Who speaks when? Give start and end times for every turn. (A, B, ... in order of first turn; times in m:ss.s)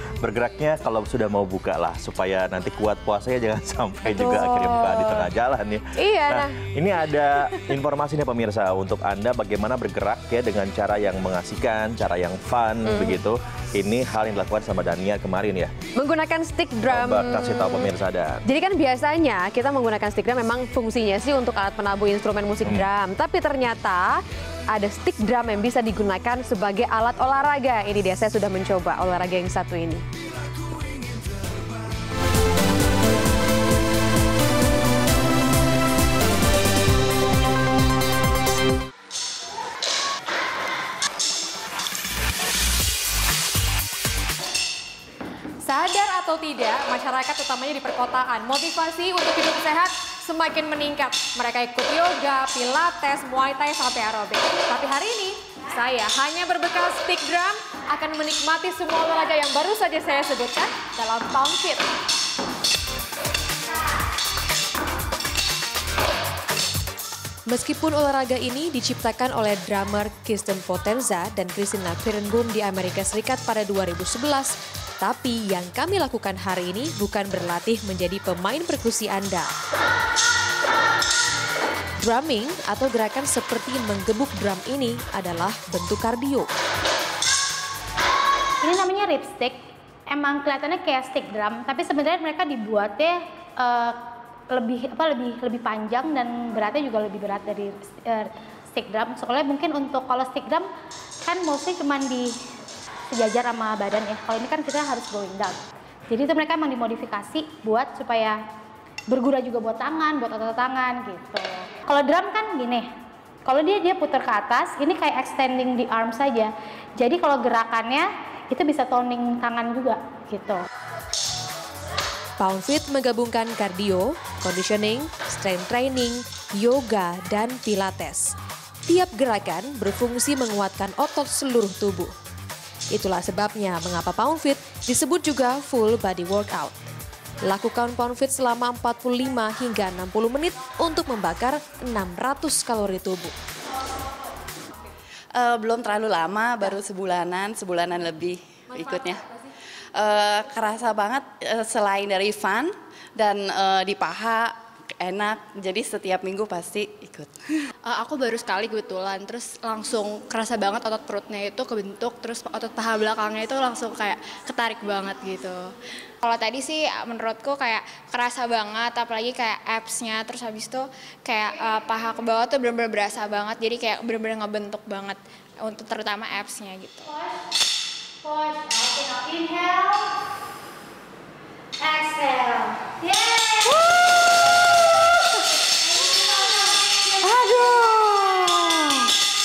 0:00.2-0:15.8 A
0:04.2-0:05.2 B
0:06.0-0:06.5 B
0:07.4-0:07.8 B
0:12.9-0:13.2 B
0:16.0-0:17.9 B
0:16.8-0:18.4 A
0:18.5-0:24.2 B
0:24.7-0:30.0 B
0:45.6-1:01.9 C
1:07.5-1:19.5 D
1:22.0-1:26.5 D
1:28.6-1:29.6 E
1:30.1-1:34.0 E
1:34.5-1:40.7 E
1:41.2-1:42.3 E
1:43.1-1:48.4 E
1:49.1-1:52.9 E
1:53.4-2:00.6 E
2:02.4-2:08.3 D
2:08.9-2:12.1 D
2:12.9-2:16.8 D
2:17.4-2:23.3 D
2:25.3-2:29.2 F
2:29.9-2:37.7 F
2:37.8-2:57.0 G
2:57.0-2:57.4 E
2:58.2-3:00.1 E
3:01.8-3:03.8 E
3:06.0-3:06.7 E
3:07.2-3:09.1 C